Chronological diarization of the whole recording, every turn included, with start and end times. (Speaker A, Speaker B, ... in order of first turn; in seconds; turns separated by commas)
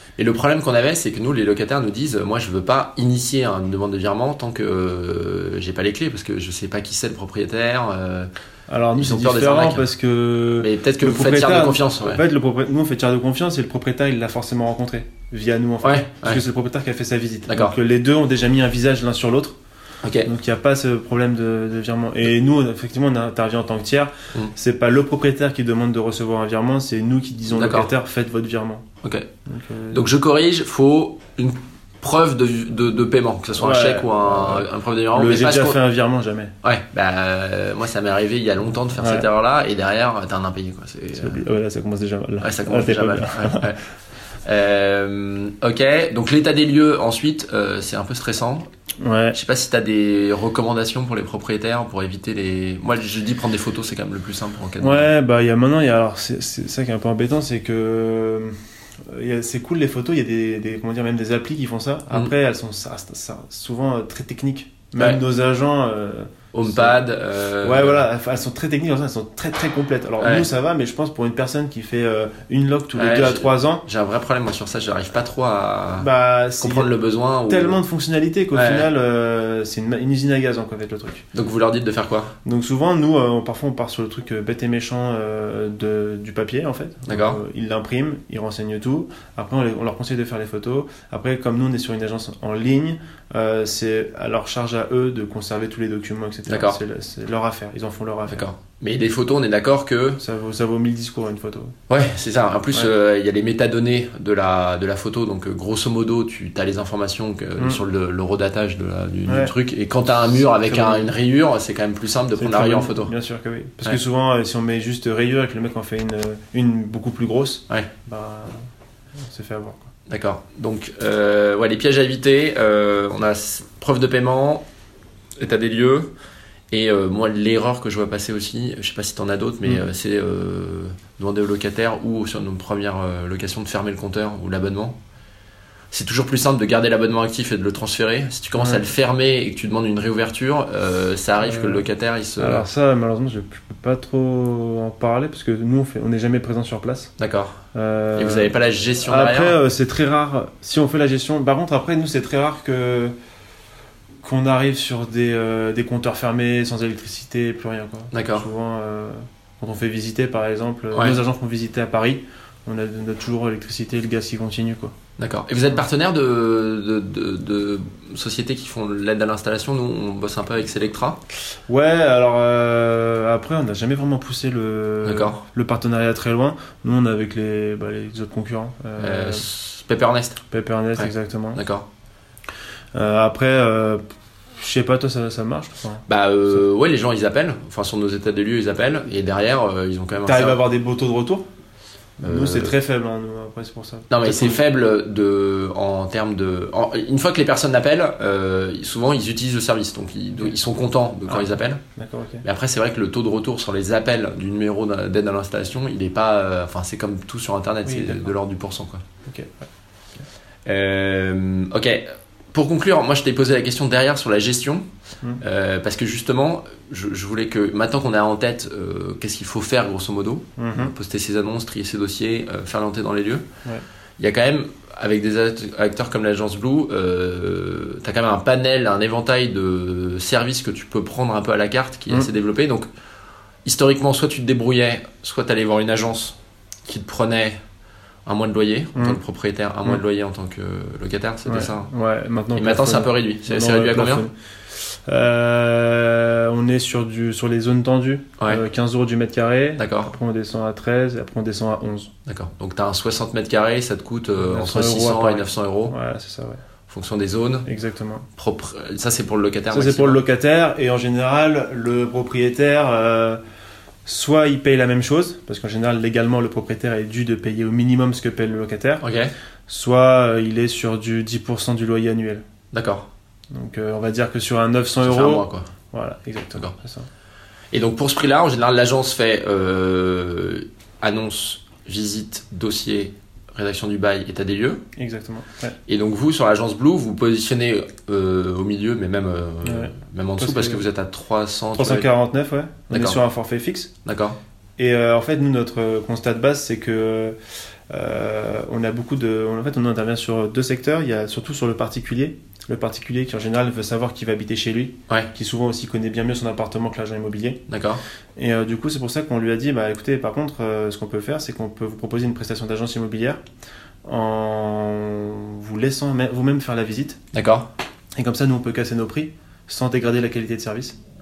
Speaker A: 0.2-8.3, Speaker B: 8.7-19.6, Speaker A: 9.0-9.9, Speaker A: 10.6-12.2, Speaker A: 15.8-16.4, Speaker A: 17.5-17.8, Speaker A: 20.0-20.3, Speaker B: 20.2-28.9, Speaker A: 27.5-27.9, Speaker A: 29.0-29.3, Speaker B: 29.4-30.1, Speaker A: 29.9-35.8, Speaker B: 33.6-36.5, Speaker A: 36.6-41.4, Speaker B: 39.0-39.3, Speaker B: 41.1-43.7, Speaker A: 42.4-43.8, Speaker A: 44.4-48.7, Speaker B: 49.0-49.4, Speaker A: 49.3-55.1, Speaker B: 54.8-67.0, Speaker A: 66.5-68.1, Speaker B: 67.6-73.8, Speaker A: 70.2-70.5, Speaker A: 72.9-76.1, Speaker B: 76.0-76.9, Speaker A: 76.6-77.8, Speaker B: 77.5-81.2, Speaker A: 78.5-78.9, Speaker A: 81.3-82.3, Speaker B: 82.4-98.5, Speaker A: 87.1-87.4, Speaker A: 96.5-96.8, Speaker A: 98.3-100.2, Speaker B: 100.2-101.8, Speaker A: 101.9-113.1, Speaker B: 109.2-109.5, Speaker B: 110.3-111.1, Speaker B: 112.4-119.9, Speaker A: 120.1-124.7, Speaker A: 125.4-126.1, Speaker A: 126.7-135.0, Speaker A: 135.9-142.6, Speaker B: 138.6-138.8, Speaker B: 141.4-141.8, Speaker B: 142.4-147.1, Speaker A: 147.2-147.6, Speaker B: 147.7-153.1, Speaker A: 148.2-149.6, Speaker B: 154.2-164.9, Speaker A: 158.1-158.5, Speaker A: 160.9-161.2, Speaker A: 165.2-171.2, Speaker B: 171.7-179.4, Speaker A: 175.0-175.4, Speaker A: 179.0-180.4, Speaker B: 180.5-181.6, Speaker A: 181.0-181.9, Speaker B: 182.9-184.0, Speaker B: 184.6-186.6, Speaker A: 186.1-190.6, Speaker B: 190.2-191.5, Speaker B: 192.2-194.6, Speaker A: 192.2-192.7, Speaker A: 194.1-201.8, Speaker B: 201.3-202.4, Speaker A: 202.4-209.0, Speaker B: 207.8-208.3, Speaker B: 209.2-209.7, Speaker A: 210.7-214.8, Speaker A: 215.4-223.5, Speaker B: 220.6-220.9, Speaker A: 224.2-232.9, Speaker A: 233.6-237.6, Speaker A: 238.2-241.9, Speaker B: 238.9-239.2, Speaker B: 241.4-252.1, Speaker A: 242.5-244.2, Speaker A: 249.8-250.1, Speaker A: 252.2-255.9, Speaker B: 254.4-256.6, Speaker A: 256.9-257.7, Speaker B: 257.6-258.3, Speaker A: 258.4-260.2, Speaker B: 259.7-263.4, Speaker B: 264.1-269.0, Speaker A: 269.0-269.3, Speaker B: 269.7-272.4, Speaker A: 272.7-273.1, Speaker B: 273.5-277.1, Speaker A: 275.0-275.7, Speaker A: 277.7-284.8, Speaker B: 284.9-285.8, Speaker A: 285.9-292.1, Speaker B: 289.6-290.8, Speaker B: 291.8-293.9, Speaker A: 292.9-293.2, Speaker A: 294.0-294.4, Speaker B: 294.8-297.4, Speaker B: 297.9-307.6, Speaker A: 307.7-308.0, Speaker B: 308.4-313.4, Speaker B: 314.0-317.2, Speaker A: 317.3-317.7, Speaker B: 318.1-321.0